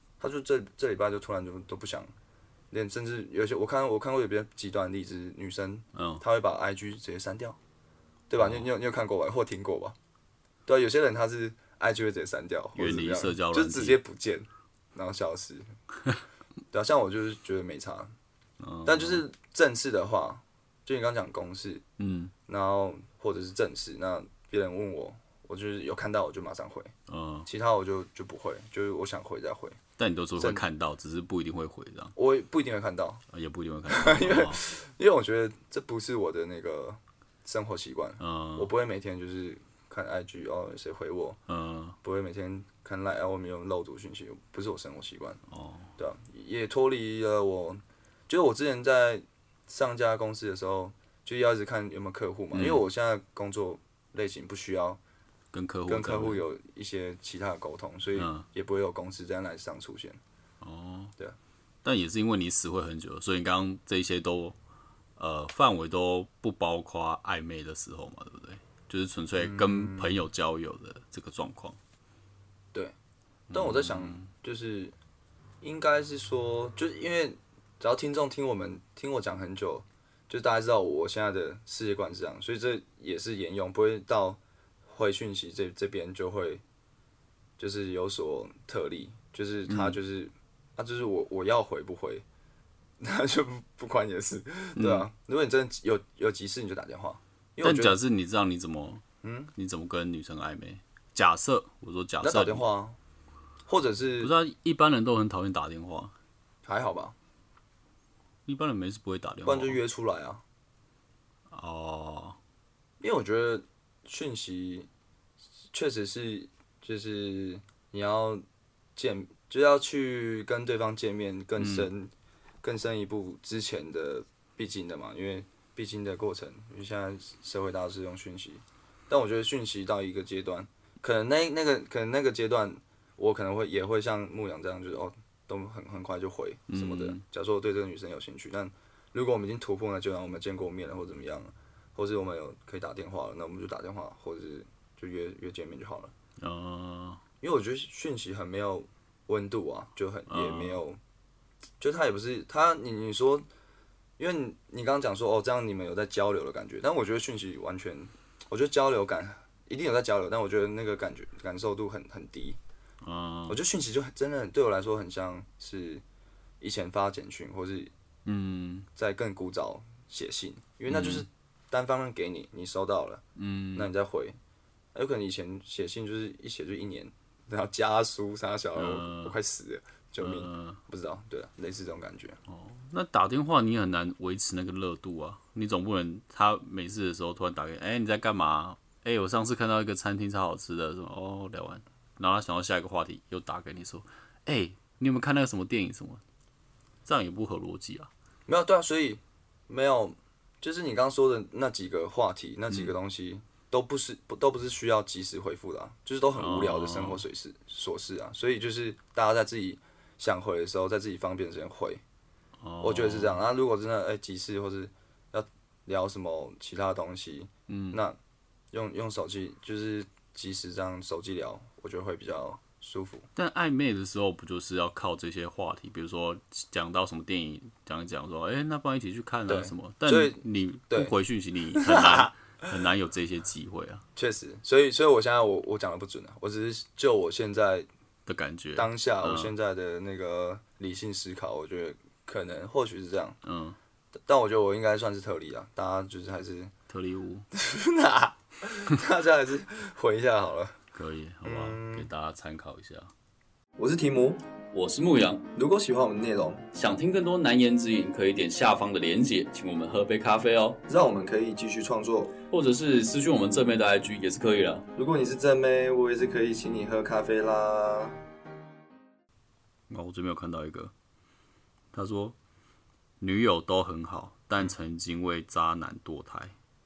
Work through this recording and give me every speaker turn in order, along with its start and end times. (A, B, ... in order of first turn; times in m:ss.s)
0:00.2-0:02.1 A
0:02.7-0:07.6 A
0:05.9-0:06.2 B
0:08.3-0:10.0 A
0:08.4-0:08.7 B
0:10.7-0:15.6 A
0:12.7-0:14.0 B
0:16.7-0:18.1 A
0:18.6-0:19.2 B
0:18.8-0:21.8 A
0:22.0-0:22.3 B
0:22.5-0:26.9 A
0:27.1-0:27.5 B
0:27.4-0:29.8 A
0:30.0-0:32.1 B
0:30.4-0:30.6 A
0:32.2-0:33.2 A
0:33.3-0:34.6 B
0:33.9-0:41.4 A
0:38.2-0:38.7 B
0:41.5-0:42.0 B
0:42.0-0:45.4 A
0:45.5-0:45.9 B
0:46.0-0:55.0 A
0:52.5-0:52.8 B
0:55.5-0:56.4 B
0:55.9-1:00.2 A
0:58.2-0:58.4 B
1:00.6-1:01.1 B
1:01.8-1:04.6 B
1:05.2-1:11.8 B
1:09.4-1:10.2 A
1:13.5-1:14.3 B
1:13.5-1:14.9 A
1:15.6-1:26.6 A
1:27.6-1:32.2 A
1:29.7-1:30.0 B
1:33.0-1:38.0 A
1:34.8-1:35.1 B
1:37.6-1:39.0 B
1:39.2-1:39.5 A
1:39.5-1:42.6 B
1:42.2-1:43.0 A
1:43.7-1:44.3 A
1:44.2-1:46.1 B
1:46.6-1:47.1 A
1:48.4-1:49.8 B
1:49.4-1:50.4 A
1:51.5-1:52.4 B
1:53.0-1:54.9 A
1:55.7-1:58.4 A
1:59.0-2:02.1 A
2:01.6-2:01.9 B
2:02.6-2:26.1 A
2:16.7-2:17.2 B
2:26.4-2:27.2 B
2:27.4-2:31.0 A
2:30.3-2:30.8 B
2:31.8-2:33.4 A
2:34.2-2:42.6 A
2:43.0-2:43.6 B
2:43.5-2:46.0 A
2:46.6-2:47.9 A
2:48.2-2:48.9 B
2:49.0-2:53.2 A
2:50.9-2:51.2 B
2:53.4-2:53.9 B
2:53.7-2:54.4 A
2:54.9-3:02.4 A
2:58.8-2:59.4 B
3:00.2-3:00.8 B
3:02.5-3:16.2 B
3:17.0-3:18.1 B
3:18.5-3:32.0 A
3:26.4-3:27.2 B
3:32.6-3:33.4 B
3:32.8-3:38.2 A
3:37.7-3:38.0 B
3:38.7-3:43.3 A
3:43.4-3:54.0 B
3:49.5-3:51.1 A
3:51.7-3:52.3 A
3:54.2-3:57.9 A
3:58.2-3:59.5 B
3:58.7-4:03.4 A
4:03.4-4:03.8 B
4:04.3-4:06.7 A
4:06.9-4:07.4 B
4:07.5-4:10.8 A
4:10.9-4:13.1 B
4:11.4-4:12.1 A
4:13.8-4:14.4 A
4:14.7-4:15.5 B
4:15.5-4:16.6 A
4:16.7-4:20.8 B
4:20.9-4:22.4 A
4:22.5-4:24.8 B
4:24.9-4:28.2 A
4:29.9-4:30.9 B
4:31.9-4:32.4 B
4:33.2-4:36.5 B